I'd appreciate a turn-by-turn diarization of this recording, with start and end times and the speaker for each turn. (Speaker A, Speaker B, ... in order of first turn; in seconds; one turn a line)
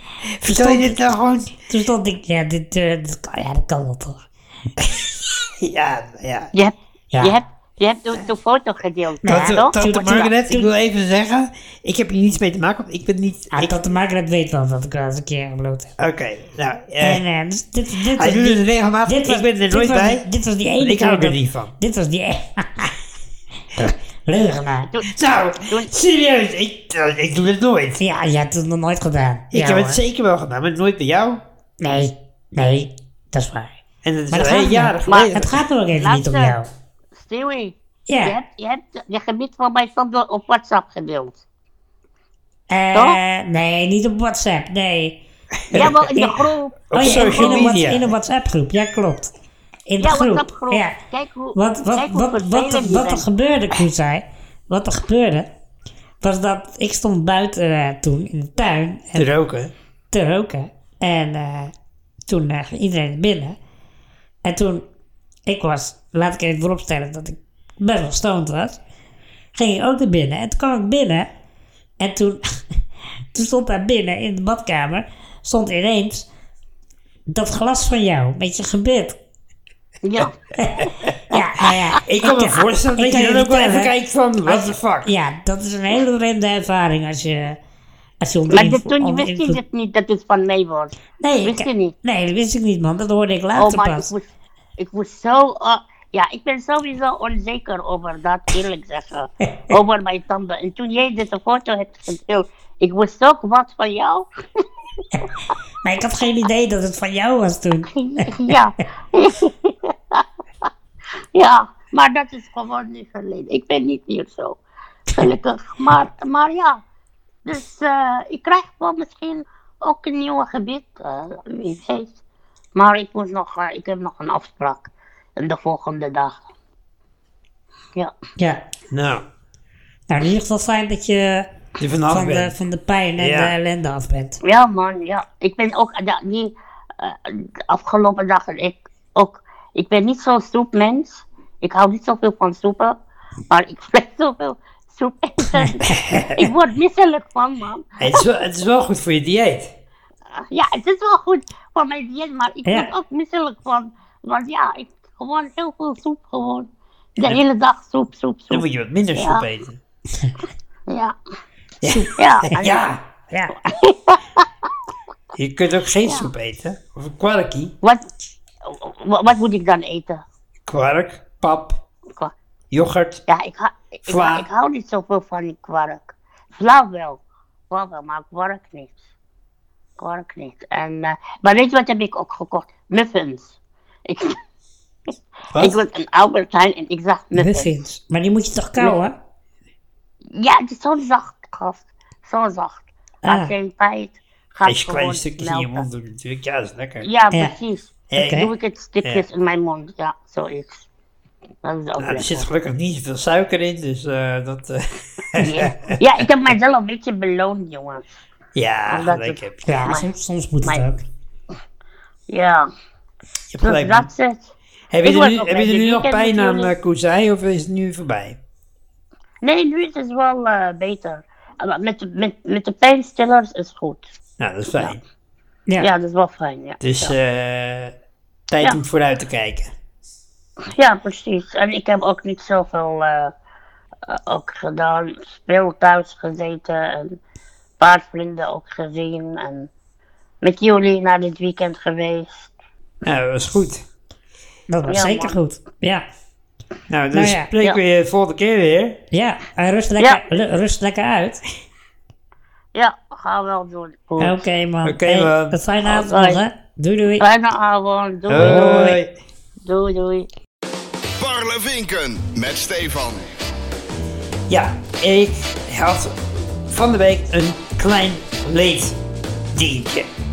Speaker A: 0.4-1.6
Speaker B: 0.4-1.0
Speaker B: 1.6-4.2
Speaker A: 4.8-5.0
Speaker A: 5.6-6.5
Speaker C: 6.5-9.8
Speaker B: 9.2-10.7
Speaker A: 9.3-13.8
Speaker B: 13.5-15.9
Speaker A: 16.0-17.2
Speaker B: 17.0-22.9
Speaker A: 18.1-20.3
Speaker A: 20.8-21.7
Speaker B: 23.8-24.9
Speaker C: 24.9-25.9
Speaker A: 25.1-28.0
Speaker B: 28.0-30.0
Speaker A: 29.5-31.4
Speaker B: 31.8-33.8
Speaker A: 34.0-35.6
Speaker B: 34.3-36.7
Speaker C: 35.1-35.4
Speaker C: 36.0-36.6
Speaker C: 37.1-41.4
Speaker B: 38.1-38.3
Speaker B: 42.7-45.2
Speaker C: 42.9-43.2
Speaker A: 45.7-46.2
Speaker C: 45.7-47.8
Speaker B: 45.7-46.3
Speaker A: 46.9-48.1
Speaker B: 46.9-49.3
Speaker B: 49.9-51.0
Speaker C: 50.0-53.2
Speaker B: 51.5-55.5
Speaker B: 56.2-59.3
Speaker A: 59.1-59.7
Speaker B: 60.1-61.7
Speaker B: 62.3-63.6
Speaker B: 64.4-64.8
Speaker B: 65.5-68.8
Speaker B: 69.5-71.3
Speaker B: 72.0-72.5
Speaker B: 73.3-76.3
Speaker B: 77.3-79.2
Speaker C: 80.0-80.4
Speaker B: 80.6-83.9
Speaker A: 82.0-85.1
Speaker B: 84.5-87.6
Speaker B: 88.2-89.6
Speaker C: 88.5-91.9
Speaker B: 91.2-94.1
Speaker C: 93.5-104.3
Speaker B: 105.8-108.5
Speaker C: 107.9-110.7
Speaker C: 111.3-114.6
Speaker C: 115.1-116.8
Speaker C: 117.4-122.1
Speaker C: 122.7-126.4
Speaker B: 128.4-128.6
Speaker A: 128.9-129.2
Speaker B: 130.1-131.5
Speaker A: 131.8-132.5
Speaker B: 132.1-134.4
Speaker A: 133.2-133.5
Speaker C: 134.4-143.0
Speaker C: 143.5-148.2
Speaker A: 145.9-146.4
Speaker A: 148.0-149.7
Speaker C: 150.3-158.6
Speaker B: 152.7-152.9
Speaker A: 158.5-159.8
Speaker C: 159.2-159.4
Speaker C: 160.9-161.2
Speaker A: 161.8-163.0
Speaker C: 162.1-162.8
Speaker C: 163.6-164.4
Speaker A: 165.3-167.7
Speaker C: 166.0-166.3
Speaker C: 168.6-170.2
Speaker A: 170.7-171.8
Speaker A: 172.7-173.2
Speaker C: 173.3-179.0
Speaker A: 174.1-174.5
Speaker C: 180.0-183.5
Speaker C: 184.1-184.4
Speaker A: 185.5-185.8
Speaker C: 185.6-187.8
Speaker B: 187.3-189.2
Speaker C: 190.3-195.8
Speaker B: 193.2-193.5
Speaker A: 194.6-197.1
Speaker C: 197.0-200.8
Speaker A: 198.1-198.4
Speaker B: 198.2-198.5
Speaker C: 201.6-202.5
Speaker A: 202.0-206.2
Speaker C: 205.4-208.1
Speaker A: 208.5-209.8
Speaker C: 208.9-210.1
Speaker B: 209.7-211.0
Speaker C: 212.3-212.7
Speaker A: 213.5-214.1
Speaker C: 213.6-214.5
Speaker A: 214.9-218.4
Speaker C: 215.0-216.7
Speaker C: 219.4-224.1
Speaker A: 224.4-225.0
Speaker C: 225.8-227.1
Speaker A: 226.8-227.9
Speaker A: 228.5-229.7
Speaker C: 230.7-233.3
Speaker C: 234.1-237.2
Speaker C: 237.8-239.7
Speaker C: 240.4-242.5
Speaker A: 243.0-243.8
Speaker B: 244.7-246.1
Speaker C: 244.9-245.4
Speaker A: 246.9-249.0
Speaker B: 247.1-247.5
Speaker B: 249.1-251.4
Speaker C: 252.7-254.4
Speaker B: 254.2-257.2
Speaker A: 254.8-255.6
Speaker C: 255.8-256.4
Speaker C: 257.2-258.9
Speaker A: 258.3-259.1
Speaker B: 258.4-259.0
Speaker C: 259.6-260.3
Speaker D: 261.2-263.3
Speaker A: 264.5-269.0
Speaker A: 269.5-270.1